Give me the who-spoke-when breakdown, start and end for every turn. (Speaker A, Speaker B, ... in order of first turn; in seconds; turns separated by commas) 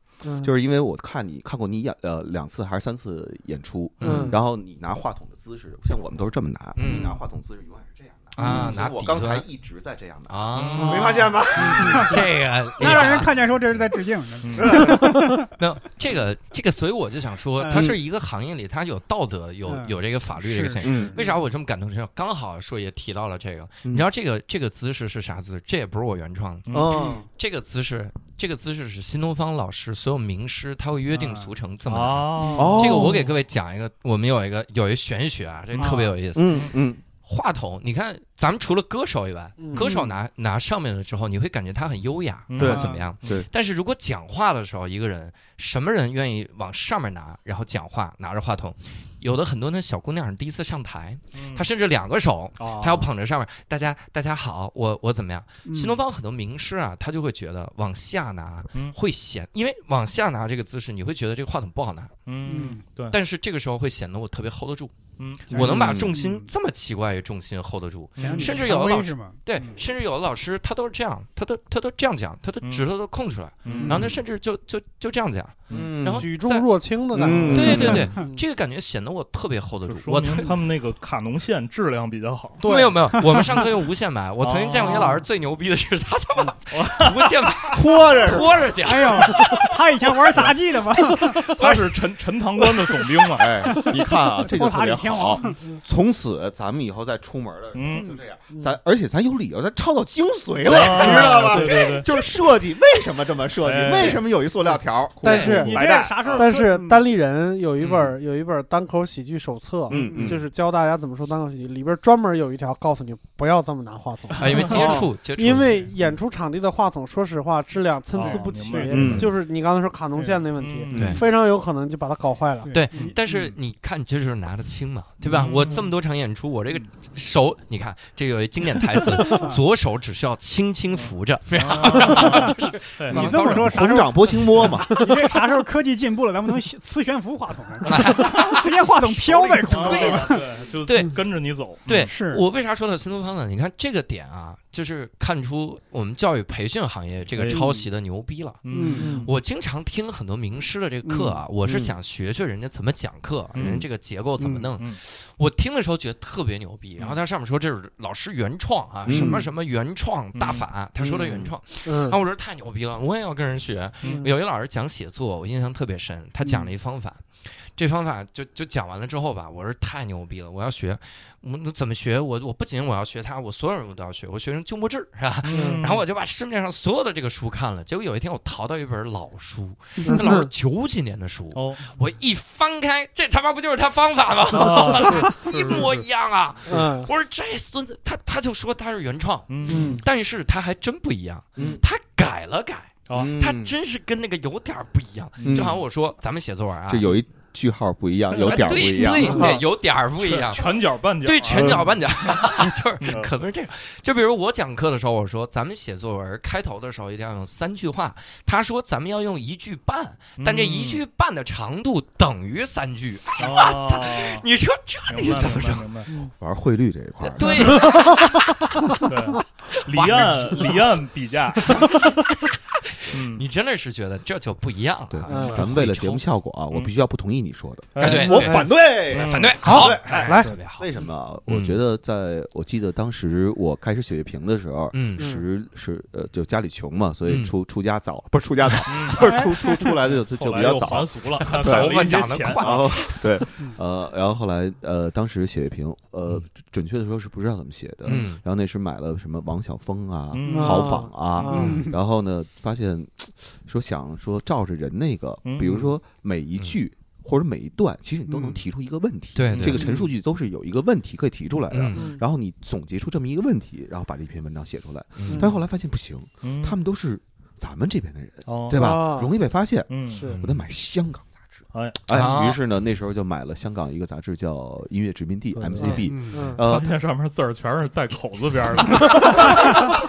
Speaker A: 0.2-0.5, Speaker B: 0.4-12.2, Speaker C: 4.0-4.4, Speaker A: 4.0-4.4, Speaker C: 6.8-7.2, Speaker A: 6.9-7.1, Speaker C: 8.4-9.5, Speaker A: 8.4-8.7, Speaker C: 10.3-13.4, Speaker D: 10.5-11.3, Speaker A: 10.8-11.3, Speaker E: 11.6-12.3, Speaker E: 12.8-15.5, Speaker D: 14.4-14.8, Speaker B: 14.6-15.2, Speaker C: 15.5-36.7, Speaker E: 17.6-17.9, Speaker B: 17.7-18.0, Speaker E: 19.7-21.3, Speaker B: 20.8-21.2, Speaker D: 26.7-27.1, Speaker B: 26.7-27.3, Speaker E: 31.1-31.5, Speaker D: 31.9-32.8, Speaker B: 32.5-33.3, Speaker E: 35.8-36.2, Speaker B: 36.3-37.0, Speaker C: 37.2-62.1, Speaker A: 39.6-39.9, Speaker D: 42.5-43.4, Speaker B: 42.6-43.5, Speaker E: 42.6-43.0, Speaker D: 51.3-51.6, Speaker B: 52.6-53.1, Speaker E: 55.7-56.0, Speaker D: 62.3-63.2, Speaker E: 62.5-62.8, Speaker C: 63.1-64.9, Speaker D: 65.2-65.8, Speaker C: 65.5-76.7, Speaker E: 65.5-66.5, Speaker B: 65.5-66.1, Speaker D: 68.2-68.7, Speaker E: 68.2-69.8, Speaker D: 72.6-72.9, Speaker D: 73.6-74.1, Speaker B: 73.7-74.2, Speaker B: 75.7-76.3, Speaker A: 76.1-78.4, Speaker B: 77.1-78.1, Speaker D: 77.2-77.9, Speaker C: 77.5-80.6, Speaker E: 77.8-78.1, Speaker D: 79.9-82.6, Speaker A: 82.6-83.4, Speaker C: 82.6-89.7, Speaker E: 83.3-83.6, Speaker D: 84.4-85.2, Speaker A: 84.8-85.2, Speaker D: 86.7-87.4, Speaker B: 87.7-88.7, Speaker E: 88.8-91.6, Speaker D: 91.1-93.6, Speaker B: 93.4-106.5, Speaker E: 93.7-95.6, Speaker D: 97.7-98.2, Speaker A: 98.5-98.8, Speaker D: 100.7-102.1, Speaker A: 100.8-102.0, Speaker D: 103.6-104.2, Speaker A: 105.2-122.7, Speaker C: 105.2-105.7, Speaker D: 105.2-106.4, Speaker E: 105.5-107.0, Speaker C: 107.8-108.1, Speaker B: 109.9-110.5, Speaker E: 109.9-110.4, Speaker C: 114.4-115.8, Speaker B: 114.7-115.1, Speaker D: 118.1-119.3, Speaker E: 118.2-119.1, Speaker B: 118.9-119.3, Speaker C: 119.0-119.3, Speaker D: 120.1-121.3, Speaker C: 120.9-121.2, Speaker B: 120.9-121.2, Speaker E: 122.6-123.5, Speaker C: 122.7-133.8, Speaker D: 125.2-125.9, Speaker E: 129.2-129.6, Speaker D: 130.9-133.3, Speaker E: 133.1-140.5, Speaker B: 133.1-135.0, Speaker C: 137.8-141.2, Speaker D: 139.3-142.1, Speaker C: 141.8-197.1, Speaker E: 142.0-142.4, Speaker D: 147.4-147.7, Speaker E: 147.5-147.8, Speaker D: 148.6-149.3, Speaker E: 148.7-149.2, Speaker A: 149.0-149.3, Speaker E: 151.1-151.4, Speaker D: 153.5-153.8, Speaker B: 153.6-153.9, Speaker E: 154.4-154.7, Speaker B: 159.1-159.4, Speaker A: 159.1-159.4, Speaker D: 160.3-160.7, Speaker B: 161.0-161.5, Speaker A: 161.8-162.2, Speaker D: 164.0-164.3, Speaker A: 164.0-164.3, Speaker D: 175.4-176.0, Speaker A: 175.5-175.8, Speaker A: 180.0-180.5, Speaker D: 181.5-181.9, Speaker D: 184.5-186.1, Speaker A: 186.7-187.1, Speaker D: 189.5-190.0, Speaker A: 189.7-190.0, Speaker B: 191.6-191.8, Speaker D: 193.1-193.3, Speaker B: 193.1-193.8, Speaker D: 195.4-195.8, Speaker B: 195.4-195.8, Speaker B: 196.9-199.6, Speaker D: 198.4-199.6, Speaker C: 198.4-215.9, Speaker A: 199.2-199.5, Speaker D: 200.2-202.0, Speaker B: 201.5-201.9, Speaker D: 203.0-203.3, Speaker D: 210.4-211.0, Speaker D: 213.4-214.4, Speaker D: 215.1-216.1, Speaker B: 216.4-217.9, Speaker C: 217.2-218.5, Speaker A: 217.7-218.2, Speaker D: 219.1-222.1, Speaker C: 219.7-220.8, Speaker C: 221.7-226.2, Speaker D: 223.1-223.4, Speaker B: 225.1-242.1, Speaker A: 225.3-225.6, Speaker D: 225.3-225.7, Speaker D: 227.9-229.6, Speaker C: 228.0-230.9, Speaker A: 228.0-228.7, Speaker A: 229.6-230.5, Speaker C: 231.5-231.8, Speaker C: 234.9-235.3, Speaker A: 235.2-235.4, Speaker C: 237.3-237.5, Speaker D: 238.9-239.3, Speaker D: 240.0-243.0, Speaker C: 241.4-243.4, Speaker B: 242.6-277.0, Speaker C: 248.1-248.4, Speaker D: 250.3-251.7, Speaker A: 250.5-251.8, Speaker E: 251.5-252.0, Speaker C: 251.5-251.8, Speaker D: 255.4-255.9, Speaker E: 258.3-258.6, Speaker C: 259.4-259.8, Speaker D: 259.5-259.9, Speaker A: 259.7-260.1, Speaker C: 261.7-262.1, Speaker A: 261.9-262.2, Speaker C: 265.2-265.5, Speaker A: 265.3-265.5, Speaker D: 266.4-266.8, Speaker D: 268.5-269.0, Speaker A: 268.7-269.3, Speaker D: 269.9-270.3, Speaker A: 270.1-270.4, Speaker C: 270.3-270.6, Speaker D: 271.7-272.0, Speaker C: 272.1-272.6, Speaker D: 275.5-279.9, Speaker A: 275.8-276.6, Speaker E: 276.0-276.5, Speaker E: 279.5-279.7